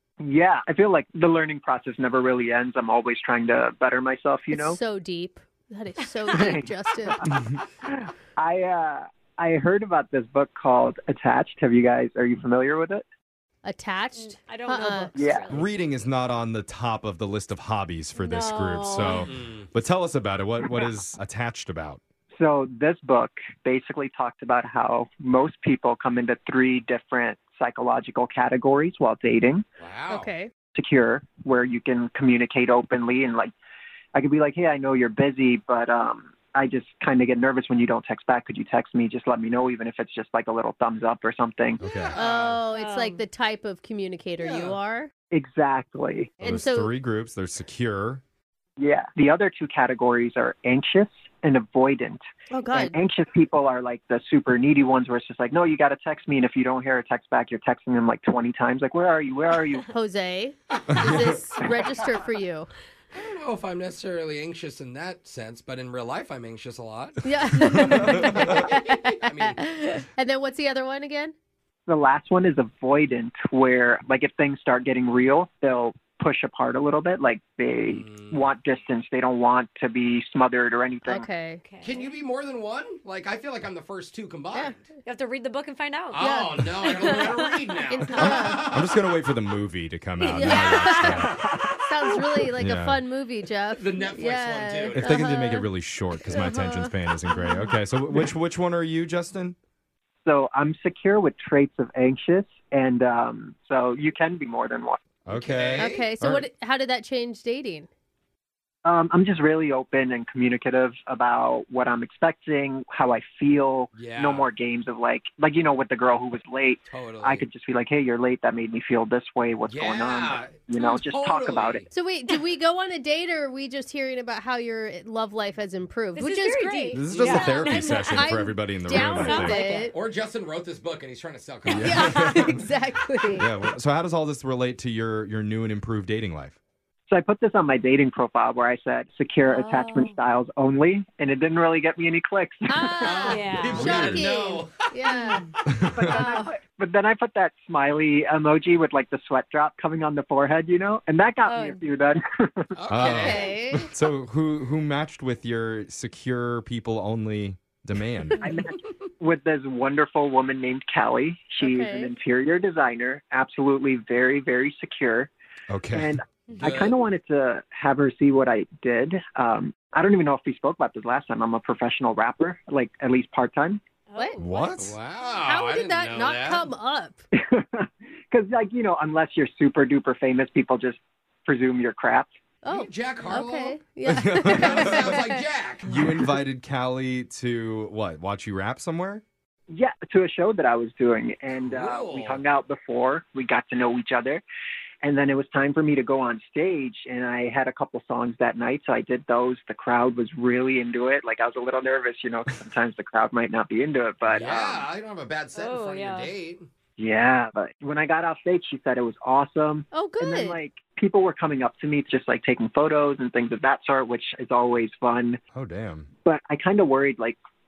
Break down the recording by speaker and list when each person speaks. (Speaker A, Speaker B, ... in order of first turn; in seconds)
Speaker A: 0.2-4.8, 6.3-13.1, 15.1-15.5, 22.3-29.6, 30.7-33.5, 34.1-41.8, 45.3-46.3, 48.8-59.9, 71.9-81.3, 100.2-105.0, 108.8-121.9, 137.1-143.2, 145.9-152.7, 158.4-165.3, 165.9-173.8, 177.3-182.3, 189.7-194.4, 195.0-204.9, 207.0-215.4, 216.2-217.4
Speaker B: 4.5-7.3, 13.6-15.1, 18.2-19.2, 30.1-30.5, 42.1-45.1, 46.4-46.9, 52.5-53.0, 59.9-62.7, 67.2-71.3, 81.0-81.6, 86.2-87.4, 87.9-88.7, 90.3-95.7, 96.3-97.7, 105.8-107.9, 121.9-129.9, 131.8-133.5, 139.5-140.1, 142.7-145.5, 146.0-146.6, 153.0-153.9, 161.6-162.1, 174.1-174.4, 175.4-177.2, 182.6-185.4, 209.9-210.6
Speaker C: 14.2-15.7, 42.7-43.2, 81.6-82.1, 85.0-86.3, 86.8-87.5, 90.2-91.2, 126.2-129.9, 143.0-143.9, 151.4-151.8, 174.1-174.7, 205.6-206.3
Speaker D: 15.5-22.0, 41.8-42.2, 46.4-48.2, 60.9-61.3, 67.9-68.6, 88.2-91.4, 92.6-93.0, 94.9-99.5, 105.3-106.5, 126.9-129.6, 131.7-132.6, 133.4-136.6, 143.7-144.2, 145.7-146.2, 152.9-158.4, 165.7-166.2, 174.4-175.0, 184.1-185.2, 185.9-189.2, 215.5-216.1
Speaker E: 19.2-19.7, 29.8-30.3, 41.9-42.6, 44.4-44.8, 63.1-69.6, 77.9-78.5, 81.8-84.8, 86.1-88.9, 93.7-95.3, 105.3-106.0, 113.9-114.5, 116.9-117.5, 119.7-121.9, 127.2-127.5, 129.9-132.3, 143.0-145.2, 152.7-153.6, 166.6-167.0, 174.8-176.7, 182.7-183.8, 184.4-185.9, 191.6-192.4, 204.3-206.7